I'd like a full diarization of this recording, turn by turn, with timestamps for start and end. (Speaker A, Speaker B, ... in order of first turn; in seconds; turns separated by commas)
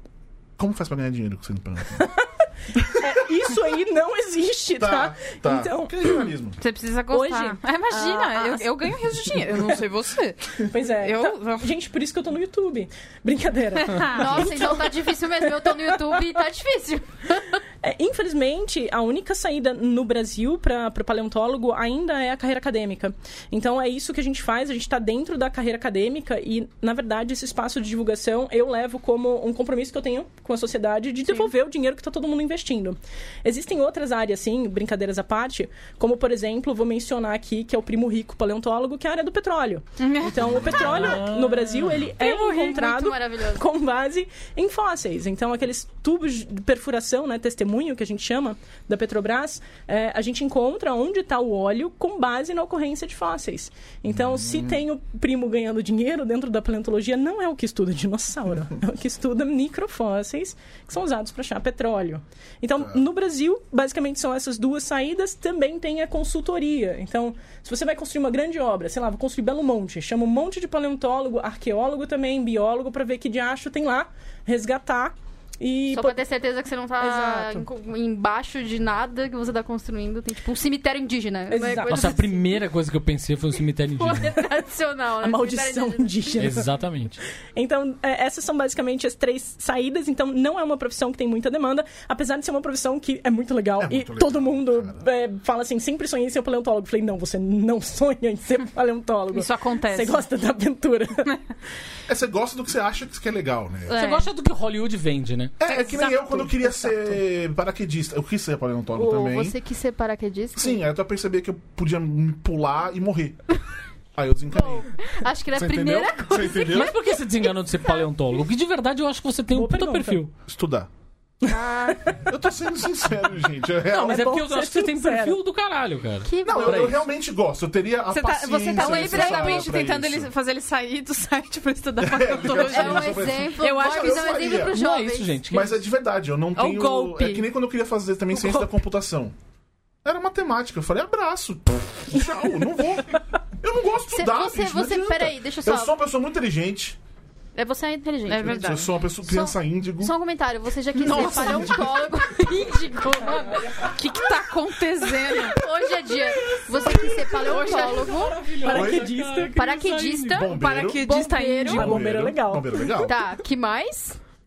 Speaker A: 0.6-2.1, Speaker B: 1.9-6.2, Speaker A: 4.8-6.6, Speaker C: 6.6-11.7, Speaker B: 7.1-8.6, Speaker B: 10.6-14.9, Speaker C: 13.8-14.7, Speaker D: 14.1-17.6, Speaker B: 17.8-76.2, Speaker C: 40.0-41.1, Speaker A: 40.5-41.1, Speaker E: 41.0-41.9, Speaker D: 42.0-43.6, Speaker A: 54.1-54.8, Speaker D: 75.9-82.6, Speaker B: 77.0-77.7, Speaker B: 81.5-82.2, Speaker E: 81.9-84.3, Speaker D: 84.0-86.4, Speaker B: 85.2-86.7, Speaker E: 86.4-87.2, Speaker B: 87.5-101.3, Speaker A: 93.8-95.0, Speaker C: 99.3-100.2, Speaker A: 102.1-104.0, Speaker E: 103.9-105.5, Speaker C: 103.9-104.2, Speaker A: 105.6-109.5, Speaker C: 105.7-106.3, Speaker D: 109.0-110.8, Speaker A: 110.5-113.4, Speaker A: 114.1-114.9, Speaker D: 114.6-117.0, Speaker A: 115.5-117.0, Speaker E: 116.6-120.3, Speaker B: 119.5-120.2, Speaker A: 120.5-120.9, Speaker B: 121.4-122.2, Speaker D: 121.5-121.9, Speaker A: 122.2-124.3, Speaker E: 123.9-127.0, Speaker B: 124.0-125.4, Speaker D: 126.2-127.0, Speaker A: 126.4-130.3, Speaker C: 128.1-134.4, Speaker A: 132.0-134.8, Speaker D: 132.4-135.4, Speaker E: 134.7-135.8, Speaker A: 135.5-139.3, Speaker C: 136.5-137.5, Speaker A: 140.0-147.0, Speaker D: 144.1-145.9, Speaker D: 147.5-153.9, Speaker C: 148.2-148.9, Speaker A: 148.4-150.2, Speaker C: 150.9-152.0, Speaker C: 153.8-155.6, Speaker D: 155.3-158.4, Speaker B: 156.2-159.7, Speaker C: 156.8-158.1, Speaker E: 158.2-160.1, Speaker A: 158.7-159.1, Speaker D: 159.5-162.0, Speaker C: 159.8-161.9, Speaker A: 160.3-161.1, Speaker B: 161.7-163.0, Speaker A: 161.7-163.2, Speaker D: 162.9-164.2